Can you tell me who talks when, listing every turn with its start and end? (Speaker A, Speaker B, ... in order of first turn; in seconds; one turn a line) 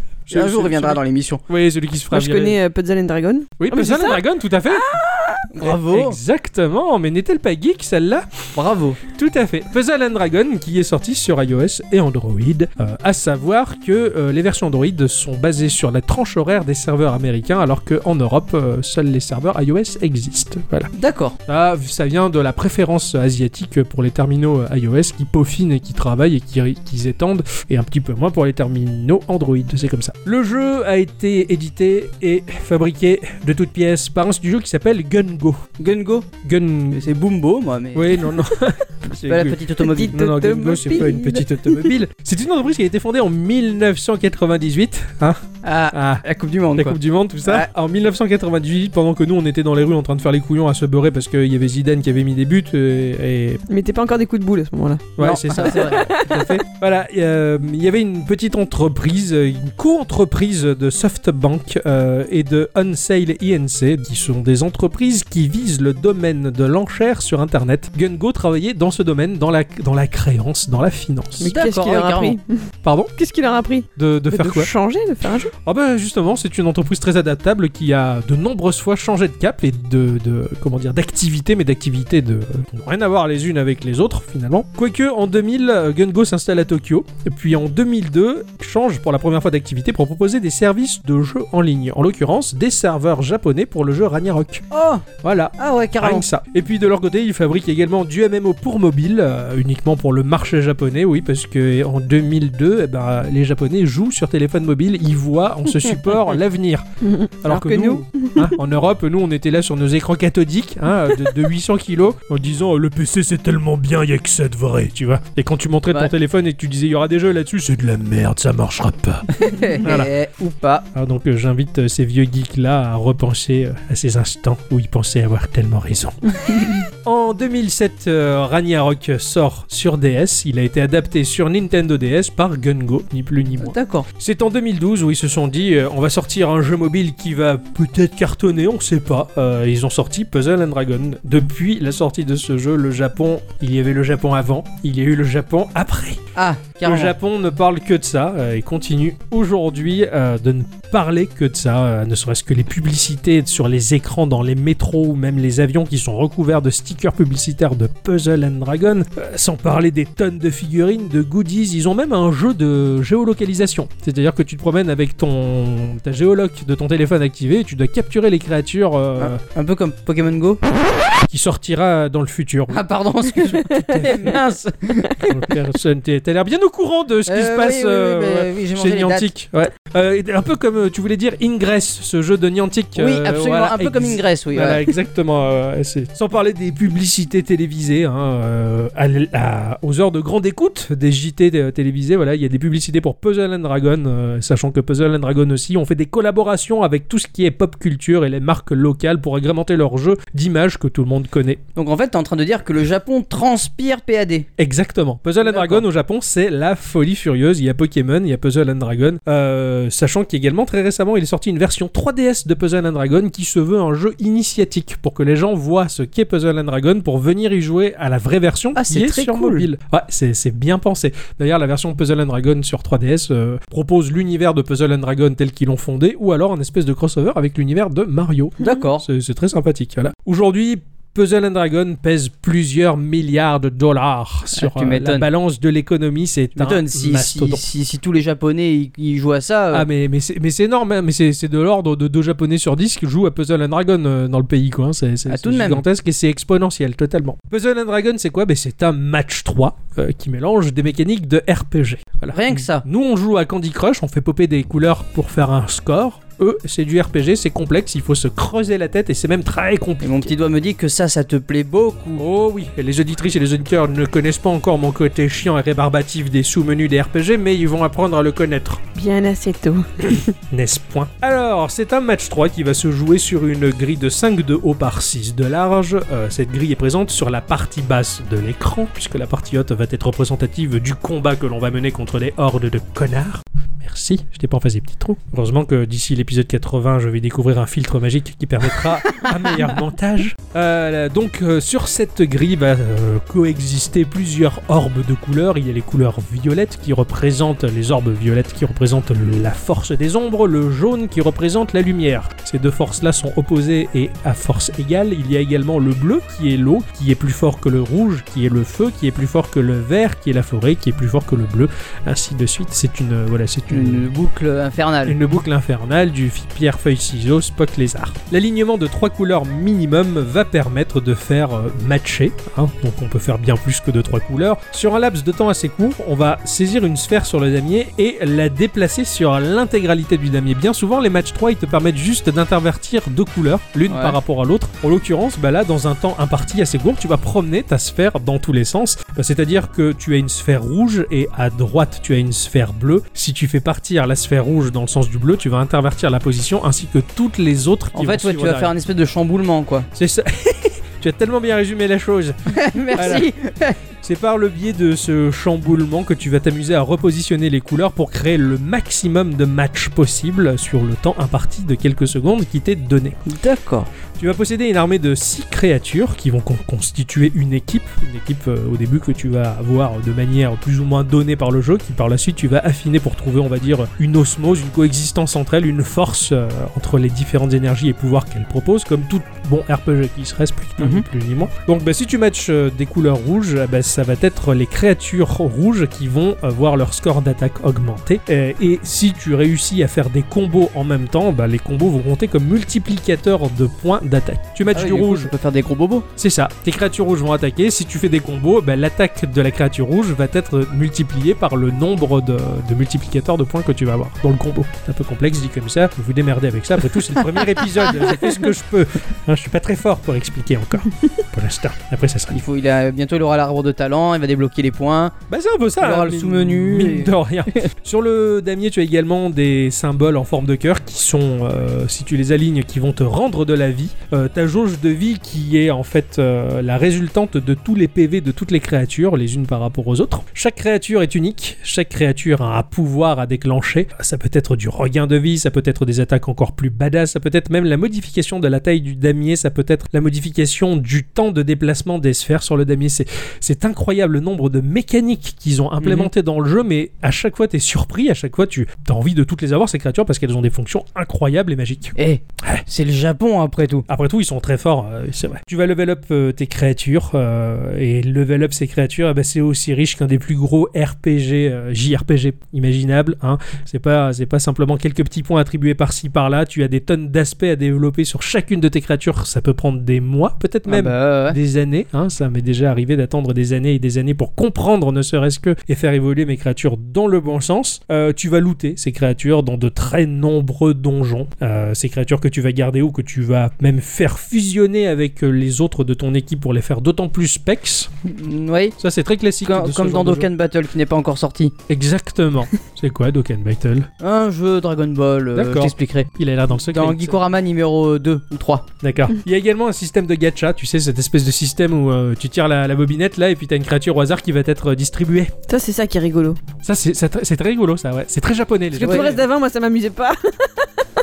Speaker A: 0.3-2.6
Speaker B: 0.3-1.4
Speaker C: 2.1-4.2
Speaker A: 3.6-4.9
Speaker B: 4.9-6.2
Speaker A: 5.6-8.4
Speaker B: 8.6-9.0
Speaker A: 9.0-20.9
Speaker B: 20.9-21.4
Speaker A: 21.5-35.6
Speaker B: 35.8-36.4
Speaker A: 36.4-37.0
Speaker B: 36.9-38.3
Speaker A: 37.9-46.2
Speaker B: 39.2-40.2
Speaker C: 39.8-41.9
Speaker B: 45.6-47.7
Speaker A: 46.8-53.6
Speaker C: 53.7-56.5
Speaker A: 55.2-71.5
Speaker B: 55.2-56.1
Speaker C: 71.4-75.5
Speaker B: 71.5-72.4
Speaker A: 72.8-73.1
Speaker A: 74.0-74.7
Speaker A: 75.5-94.6
Speaker B: 94.7-95.1
Speaker A: 95.2-106.8
Speaker B: 95.6-96.3
Speaker C: 107.0-107.3
Speaker A: 107.4-120.1
Speaker B: 107.5-108.0
Speaker C: 108.2-108.5
Speaker B: 119.3-120.9
Speaker A: 121.0-146.2
Speaker B: 133.6-134.1
Speaker B: 146.4-147.1
Speaker A: 146.8-169.4
Speaker B: 169.2-170.6
Speaker A: 171.3-172.8
Speaker B: 172.7-175.3
Speaker A: 173.4-174.4
Speaker A: 175.3-201.6
Speaker B: 177.3-179.3
Speaker B: 183.0-184.9
Speaker B: 201.8-204.5
Speaker A: 204.6-237.6
Speaker B: 205.4-205.8
Speaker B: 218.8-219.7
Speaker B: 228.6-229.1
Speaker B: 234.5-235.3
Speaker B: 236.6-239.9
Speaker A: 239.7-260.3
Speaker B: 245.3-245.8
Speaker B: 252.3-252.8
Speaker B: 260.0-262.2
Speaker A: 262.2-268.8
Speaker C: 268.9-270.3
Speaker A: 270.5-314.1
Speaker B: 313.7-315.2
Speaker A: 315.1-348.7
Speaker B: 333.9-334.2
Speaker B: 347.9-349.9
Speaker A: 349.9-353.3
Speaker B: 352.5-353.8
Speaker A: 354.0-363.2
Speaker B: 363.3-363.9
Speaker A: 364.2-395.3
Speaker B: 380.8-381.1
Speaker B: 394.7-396.1
Speaker A: 396.2-412.4
Speaker B: 412.3-415.1
Speaker A: 415.3-452.6
Speaker B: 415.8-417.1
Speaker B: 445.8-446.1
Speaker B: 452.0-453.9
Speaker A: 453.9-487.9
Speaker B: 470.7-471.4
Speaker B: 488.1-488.8
Speaker A: 488.8-490.3
Speaker B: 489.4-491.6
Speaker A: 491.7-493.9
Speaker B: 494.0-498.7
Speaker A: 495.4-497.2
Speaker A: 498.8-505.3
Speaker C: 505.5-506.4
Speaker A: 506.6-509.2
Speaker C: 508.7-510.7
Speaker B: 508.8-509.1